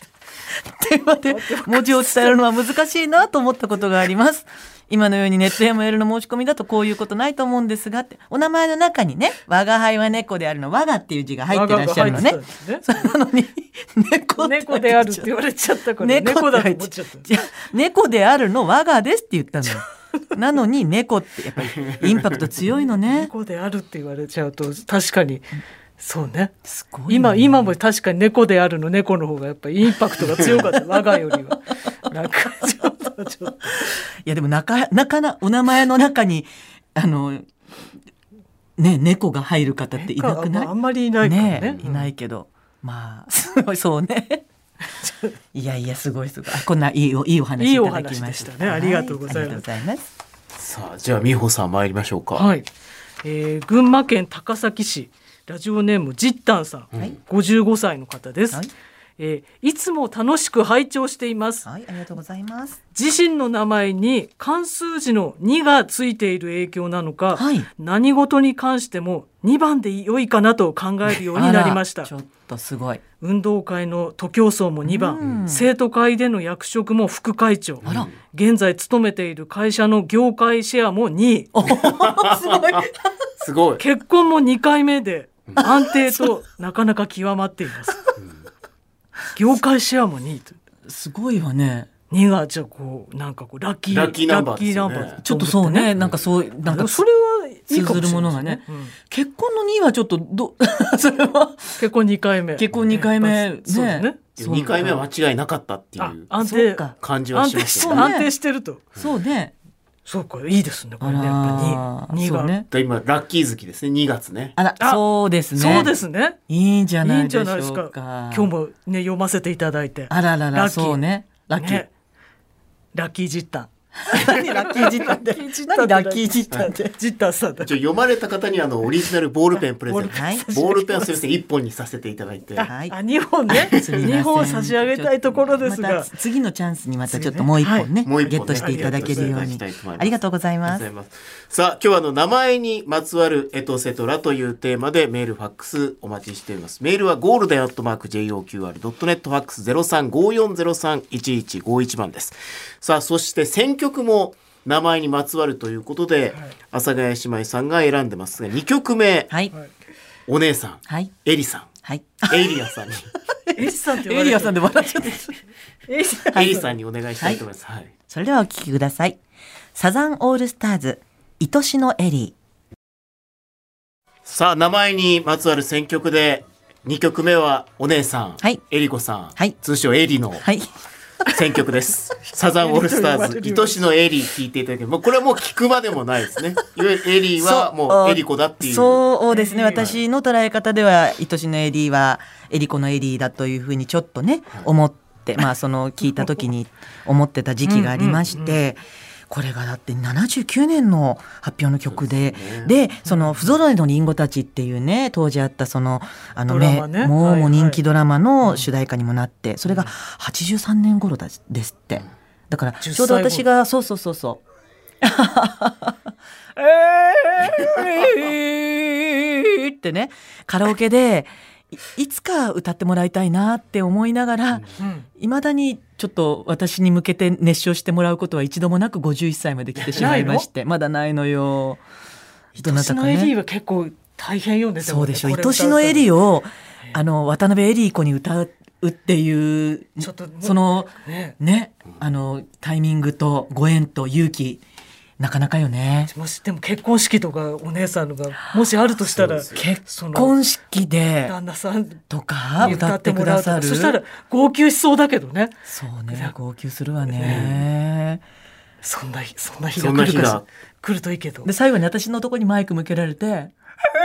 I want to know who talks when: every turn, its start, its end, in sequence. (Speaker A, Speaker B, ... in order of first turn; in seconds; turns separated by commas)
Speaker A: 0.5-15.3, Speaker B: 1.3-2.3, Speaker B: 11.5-13.1, Speaker B: 14.4-17.2, Speaker A: 16.0-23.3, Speaker C: 21.8-22.4, Speaker B: 22.7-26.5, Speaker A: 26.6-27.8, Speaker B: 27.1-33.7, Speaker A: 33.9-37.5, Speaker A: 38.8-44.5, Speaker B: 40.0-42.1, Speaker C: 41.5-41.9, Speaker A: 45.5-50.1, Speaker B: 47.6-49.7, Speaker C: 50.6-52.5, Speaker B: 52.4-52.7, Speaker B: 53.2-58.7, Speaker B: 59.2-61.7, Speaker A: 61.6-62.8, Speaker B: 62.9-72.1, Speaker A: 67.3-67.7, Speaker A: 71.3-73.0, Speaker B: 73.2-81.5, Speaker A: 74.8-75.7, Speaker C: 77.8-78.2, Speaker A: 81.5-83.1, Speaker C: 81.7-83.8, Speaker B: 83.8-88.1, Speaker A: 85.6-86.4, Speaker B: 89.3-90.6, Speaker A: 90.9-91.9, Speaker B: 92.1-95.9, Speaker C: 93.9-95.2, Speaker A: 95.2-97.0, Speaker C: 96.0-96.2, Speaker B: 96.6-99.0, Speaker A: 97.7-101.8, Speaker B: 101.8-104.2, Speaker A: 102.6-105.0, Speaker C: 104.4-106.3, Speaker B: 106.0-108.8, Speaker A: 106.4-107.0, Speaker C: 107.0-108.1, Speaker A: 107.8-108.3, Speaker A: 109.0-109.5, Speaker B: 110.0-112.5, Speaker A: 111.0-112.7, Speaker C: 112.7-114.6, Speaker A: 114.6-115.9, Speaker B: 115.5-116.4, Speaker A: 116.5-118.5, Speaker B: 117.0-121.0, Speaker A: 120.1-121.8, Speaker B: 121.5-121.9, Speaker B: 122.9-127.7, Speaker A: 124.0-126.9, Speaker C: 127.6-132.7, Speaker B: 129.5-131.1, Speaker A: 130.1-130.5, Speaker B: 132.6-136.1, Speaker A: 132.6-132.9, Speaker C: 133.5-134.1, Speaker A: 133.7-140.8, Speaker B: 137.1-139.5, Speaker C: 138.0-159.3, Speaker C: 160.3-161.7, Speaker A: 160.9-161.1, Speaker A: 161.8-162.6, Speaker C: 162.3-163.1, Speaker A: 163.5-165.4, Speaker B: 163.6-165.2, Speaker B: 165.9-166.7, Speaker A: 166.2-166.7, Speaker C: 166.3-167.9, Speaker A: 168.1-169.2, Speaker A: 169.8-172.3, Speaker C: 174.3-180.4, Speaker A: 180.4-180.7, Speaker C: 181.3-189.1, Speaker B: 182.6-183.9, Speaker A: 187.4-214.4, Speaker B: 189.3-189.9, Speaker C: 189.8-190.0, Speaker B: 197.7-198.6, Speaker C: 201.9-202.8, Speaker B: 203.1-203.5, Speaker B: 206.5-207.8, Speaker B: 208.4-208.7, Speaker B: 209.7-209.9, Speaker B: 212.8-213.5, Speaker A: 215.0-224.6, Speaker B: 224.8-225.1, Speaker A: 225.2-231.8, Speaker C: 229.8-230.2, Speaker B: 230.0-230.5, Speaker A: 232.6-233.3, Speaker B: 232.6-236.1, Speaker A: 234.8-244.6, Speaker B: 240.0-241.4, Speaker A: 245.2-246.1, Speaker B: 246.1-250.4, Speaker C: 249.1-249.7, Speaker A: 249.5-251.3, Speaker B: 251.3-252.0, Speaker A: 252.1-254.0, Speaker B: 252.6-255.6, Speaker A: 255.7-258.2, Speaker B: 257.1-257.5, Speaker C: 257.2-257.6, Speaker B: 258.8-261.5, Speaker C: 259.8-260.5, Speaker A: 261.4-263.5